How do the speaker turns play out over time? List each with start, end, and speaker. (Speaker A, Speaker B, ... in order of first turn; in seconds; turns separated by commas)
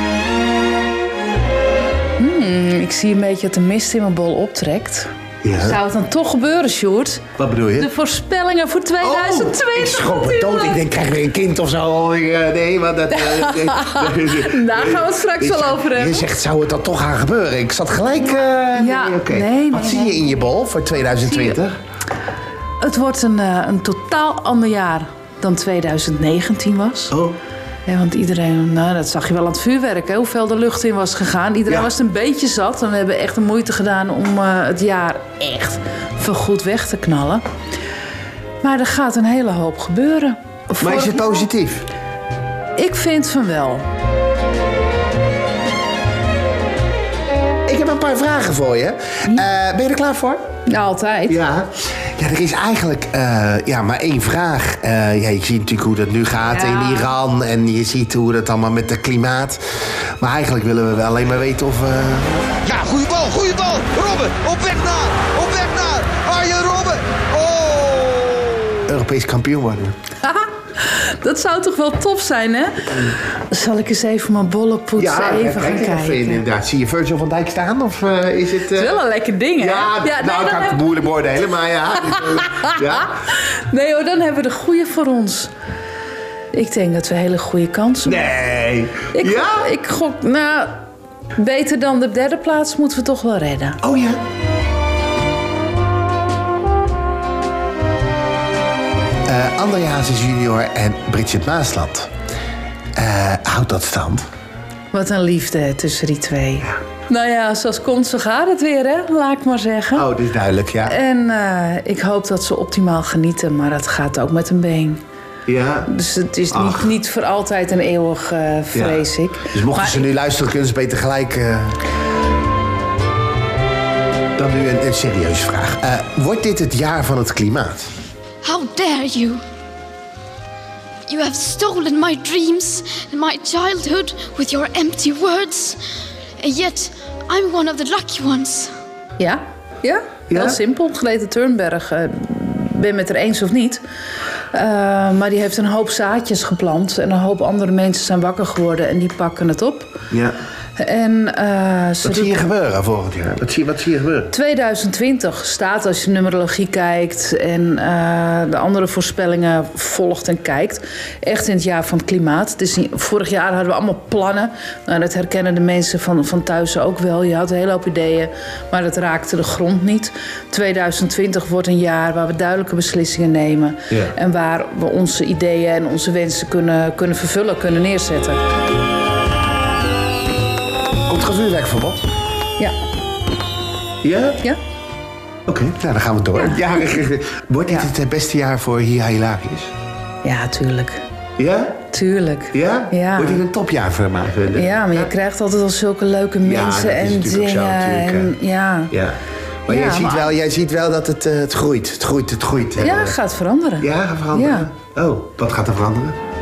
Speaker A: 2.2-10.8, Speaker B: 5.4-5.8, Speaker B: 7.4-7.9, Speaker B: 9.0-21.7, Speaker A: 13.1-16.3, Speaker A: 18.7-20.3, Speaker A: 21.2-21.6, Speaker A: 22.8-27.1, Speaker B: 27.1-27.4, Speaker A: 27.9-37.4, Speaker A: 38.6-41.4, Speaker B: 40.8-41.9, Speaker A: 42.8-43.8, Speaker B: 47.7-50.4, Speaker A: 50.6-51.4, Speaker B: 51.3-59.6, Speaker A: 56.6-57.1, Speaker B: 60.2-62.5, Speaker C: 62.6-68.6, Speaker B: 68.9-69.9, Speaker A: 70.2-76.4, Speaker B: 75.0-79.0, Speaker A: 78.7-80.8, Speaker B: 79.6-83.1, Speaker A: 82.1-85.5, Speaker A: 86.5-88.3, Speaker B: 88.0-89.7, Speaker A: 89.1-90.8, Speaker A: 91.3-93.8, Speaker B: 93.8-94.2, Speaker B: 99.2-102.1, Speaker B: 103.0-104.2, Speaker A: 104.9-110.1, Speaker B: 109.9-111.0, Speaker A: 110.8-115.0, Speaker B: 115.5-115.9, Speaker A: 115.9-120.1, Speaker B: 116.5-116.9, Speaker B: 118.7-121.8, Speaker B: 124.3-127.9, Speaker D: 128.4-129.4, Speaker D: 131.1-135.8, Speaker D: 136.4-138.7, Speaker A: 139.2-143.8, Speaker B: 140.3-140.6, Speaker A: 144.5-150.0, Speaker B: 150.1-150.3, Speaker A: 150.8-152.4, Speaker B: 152.0-154.3, Speaker A: 154.3-178.4, Speaker B: 181.1-182.0, Speaker B: 184.0-184.4, Speaker B: 185.5-189.7, Speaker A: 186.3-186.6, Speaker A: 190.2-191.0, Speaker B: 191.4-191.8, Speaker A: 191.9-193.4, Speaker B: 192.5-195.1, Speaker A: 194.5-198.9, Speaker B: 196.4-198.3, Speaker B: 198.9-203.2, Speaker A: 199.7-200.3, Speaker A: 202.8-204.7, Speaker B: 203.8-206.2